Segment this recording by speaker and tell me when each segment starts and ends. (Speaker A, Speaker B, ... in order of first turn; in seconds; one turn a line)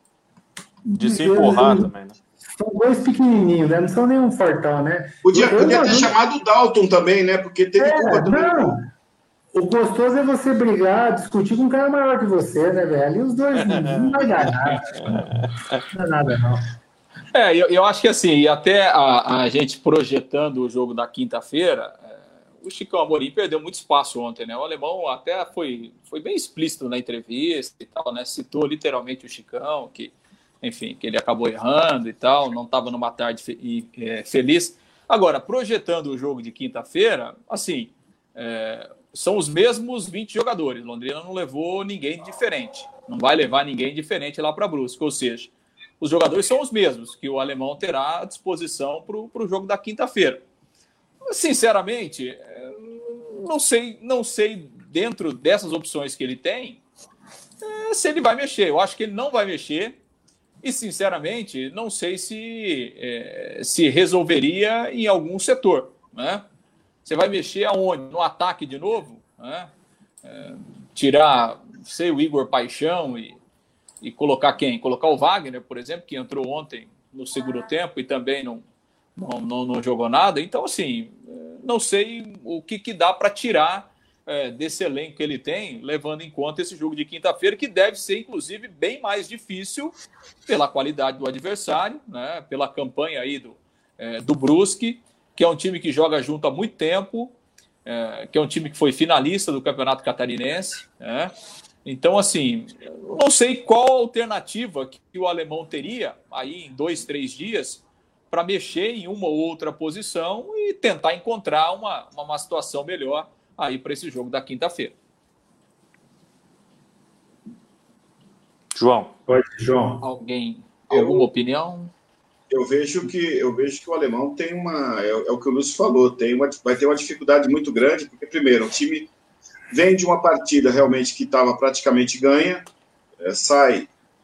Speaker A: 0.9-1.9
Speaker B: 1.0-2.2
Speaker A: 2.5-6.2
Speaker C: 5.2-8.8
Speaker A: 7.8-8.9
Speaker A: 9.5-16.7
Speaker B: 13.6-14.2
Speaker B: 14.9-15.8
Speaker D: 17.3-50.4
Speaker D: 51.3-56.8
Speaker D: 57.6-60.0
Speaker D: 60.6-66.4
Speaker D: 67.0-69.7
Speaker D: 70.2-73.4
Speaker D: 74.0-78.6
Speaker D: 79.2-89.9
Speaker D: 90.5-101.3
Speaker D: 101.8-114.9
Speaker B: 118.8-119.1
Speaker A: 119.3-120.0
Speaker D: 120.0-121.9
Speaker C: 120.9-121.2
Speaker C: 122.5-129.1
Speaker C: 129.7-132.7
Speaker C: 133.2-133.9